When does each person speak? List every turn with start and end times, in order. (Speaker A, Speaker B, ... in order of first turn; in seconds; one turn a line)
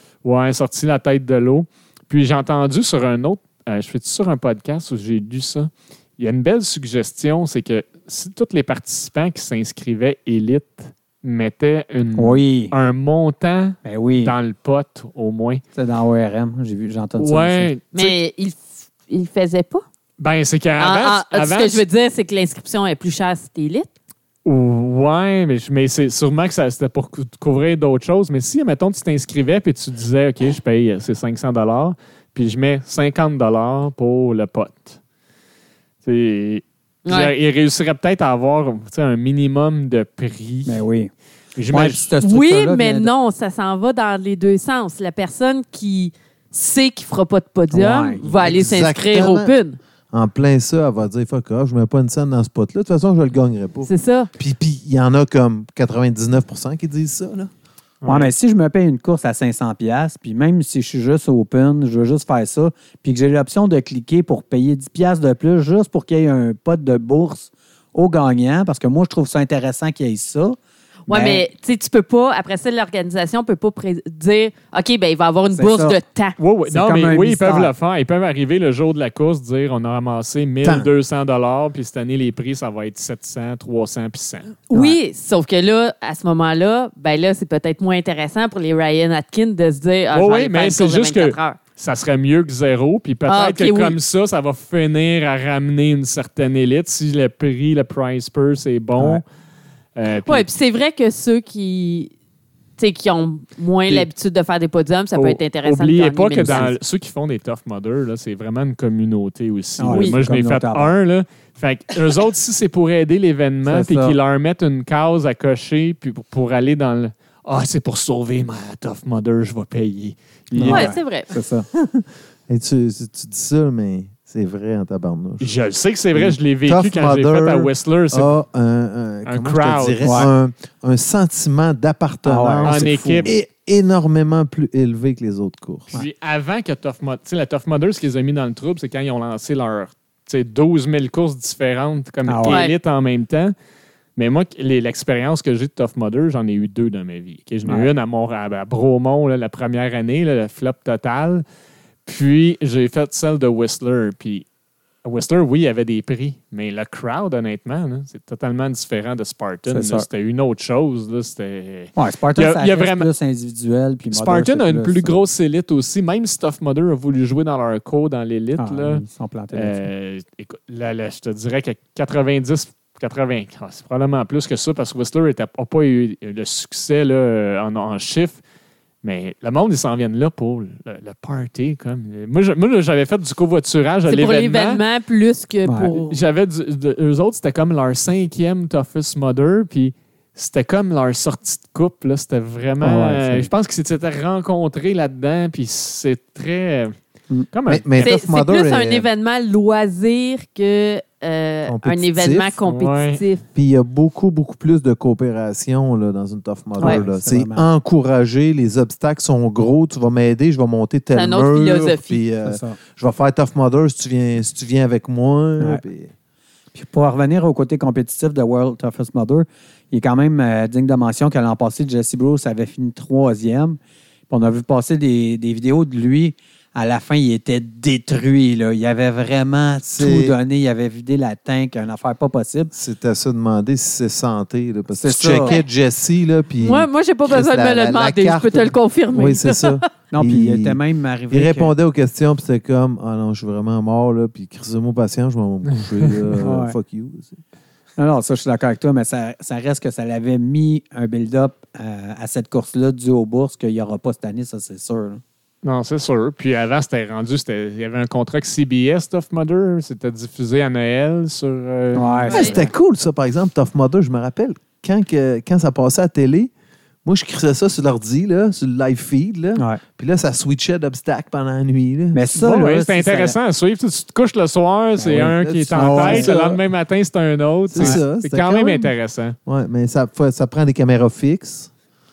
Speaker A: 0.2-15.6
Speaker B: 12.2-12.7
Speaker B: 13.8-14.3
Speaker B: 15.8-17.7
Speaker A: 17.2-18.2
Speaker C: 17.9-19.9
Speaker A: 20.2-21.8
Speaker C: 20.8-23.9
Speaker A: 24.4-35.0
Speaker A: 36.0-40.8
Speaker C: 37.1-37.3
Speaker B: 40.7-41.1
Speaker A: 41.6-42.1
Speaker B: 41.7-43.1
Speaker C: 42.2-49.8
Speaker B: 47.7-48.4
Speaker D: 48.4-49.5
Speaker D: 50.1-57.5
Speaker C: 53.9-54.3
Speaker A: 58.0-58.3
Speaker B: 58.1-70.6
Speaker B: 71.1-71.5
Speaker C: 71.1-76.3
Speaker B: 75.5-76.0
Speaker A: 76.4-84.6
Speaker B: 76.7-77.7
Speaker D: 80.6-80.9
Speaker C: 84.7-91.6
Speaker B: 84.7-85.0
Speaker A: 90.1-99.2
Speaker C: 93.3-94.0
Speaker A: 100.0-100.5
Speaker C: 100.2-102.1
Speaker C: 102.8-106.7
Speaker A: 105.2-120.9
Speaker B: 106.4-106.7
Speaker B: 109.8-111.0
Speaker C: 109.9-110.2
Speaker B: 113.7-114.2
Speaker B: 120.5-121.7
Speaker C: 120.6-121.3
Speaker D: 121.8-125.5
Speaker A: 125.4-128.3
Speaker D: 126.1-136.0
Speaker A: 129.3-130.3
Speaker B: 130.0-130.3
Speaker B: 132.2-133.3
Speaker A: 132.6-133.3
Speaker A: 135.9-143.5
Speaker B: 142.2-142.6
Speaker C: 142.5-142.7
Speaker A: 144.2-151.4
Speaker A: 152.1-154.4
Speaker A: 155.1-163.1
Speaker B: 159.7-160.1
Speaker B: 162.0-165.2
Speaker A: 164.1-169.0
Speaker B: 168.6-169.9
Speaker A: 169.5-178.4
Speaker A: 179.0-184.8
Speaker C: 184.1-186.2
Speaker B: 185.7-186.0
Speaker A: 186.1-196.9
Speaker B: 192.8-193.5
Speaker A: 197.5-198.1
Speaker D: 197.7-199.1
Speaker C: 198.0-203.4
Speaker D: 201.7-202.6
Speaker A: 202.7-203.2
Speaker D: 203.6-216.1
Speaker B: 206.8-207.7
Speaker C: 211.1-212.2
Speaker B: 212.4-212.8
Speaker B: 216.7-223.8
Speaker B: 224.3-232.7
Speaker D: 229.9-230.4
Speaker D: 232.7-240.8
Speaker B: 234.9-235.6
Speaker C: 235.4-235.7
Speaker C: 236.6-239.8
Speaker B: 240.1-241.7
Speaker D: 241.3-247.4
Speaker B: 246.4-246.8
Speaker B: 248.0-255.2
Speaker A: 255.6-262.7
Speaker B: 261.9-262.5
Speaker C: 262.3-262.6
Speaker D: 262.3-266.5
Speaker D: 267.1-272.7
Speaker B: 269.6-269.8
Speaker B: 272.1-273.4
Speaker A: 272.4-279.4
Speaker B: 275.0-276.4
Speaker D: 275.1-276.6
Speaker D: 277.7-278.9
Speaker D: 279.5-281.7